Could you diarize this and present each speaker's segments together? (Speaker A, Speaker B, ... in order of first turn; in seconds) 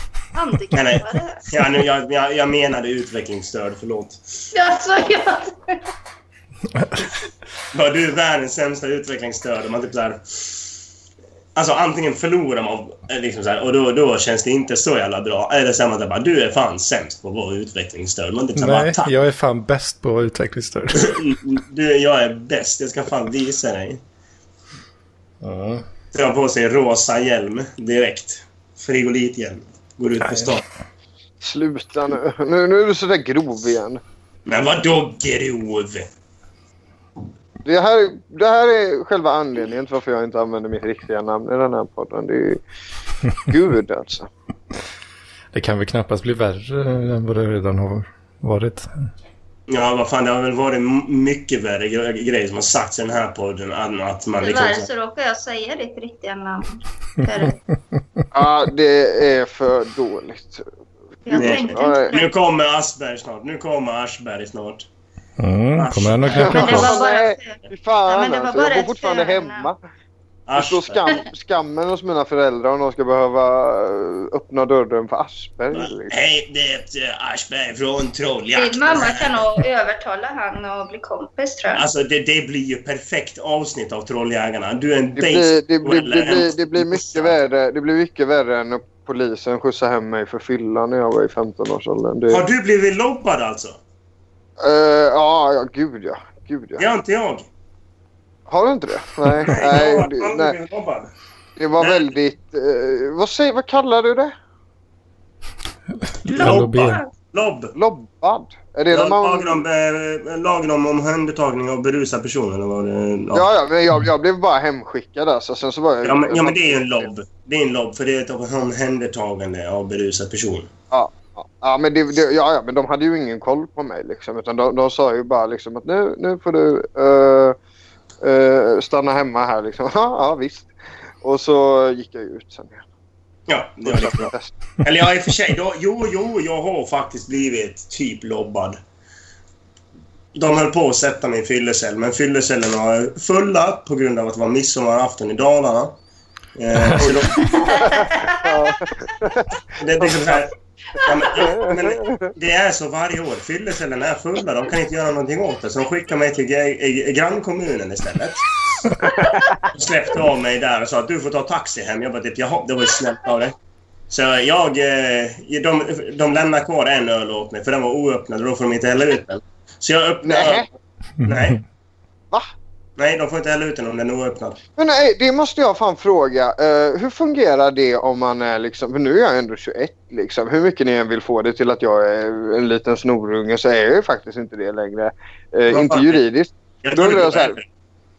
Speaker A: 0.3-1.5, 4.5-5.8, 54.4-57.6, 61.2-62.3, 66.4-69.7, 78.5-81.9, 106.3-107.1, 147.4-148.7, 150.9-151.2, 159.0-159.4
Speaker B: 0.7-4.2, 7.7-10.6, 11.6-19.1, 20.9-24.0, 26.1-30.6, 34.5-36.1, 49.7-54.9, 61.3-64.9, 65.7-67.0, 70.5-71.0, 75.7-79.4, 81.7-87.4, 92.3-93.8, 96.8-97.5, 99.4-101.1, 101.8-102.1, 106.3-107.7, 108.9-113.5, 116.0-120.7, 133.5-134.3, 134.8-138.8, 140.3-146.0, 146.6-147.5, 149.8-159.1, 159.7-163.6, 164.1-170.7, 171.2-171.6, 173.0-174.6, 185.7-186.2, 186.8-187.6
Speaker C: 18.6-21.2, 25.4-25.8, 30.2-30.5, 45.5-49.0, 65.4-67.0, 106.2-107.0, 171.2-171.5
Speaker D: 31.4-34.0, 37.6-42.6, 43.5-44.3, 58.3-60.7, 61.3-62.1, 66.3-69.8, 70.5-76.1, 85.2-92.5, 94.6-96.9, 98.5-100.5, 101.6-104.3, 107.7-109.6, 113.3-117.1, 120.9-127.6, 128.2-130.7, 131.2-132.9, 133.8-134.6, 147.0-150.4, 151.4-152.3, 159.2-159.6, 170.2-170.7, 174.8-187.6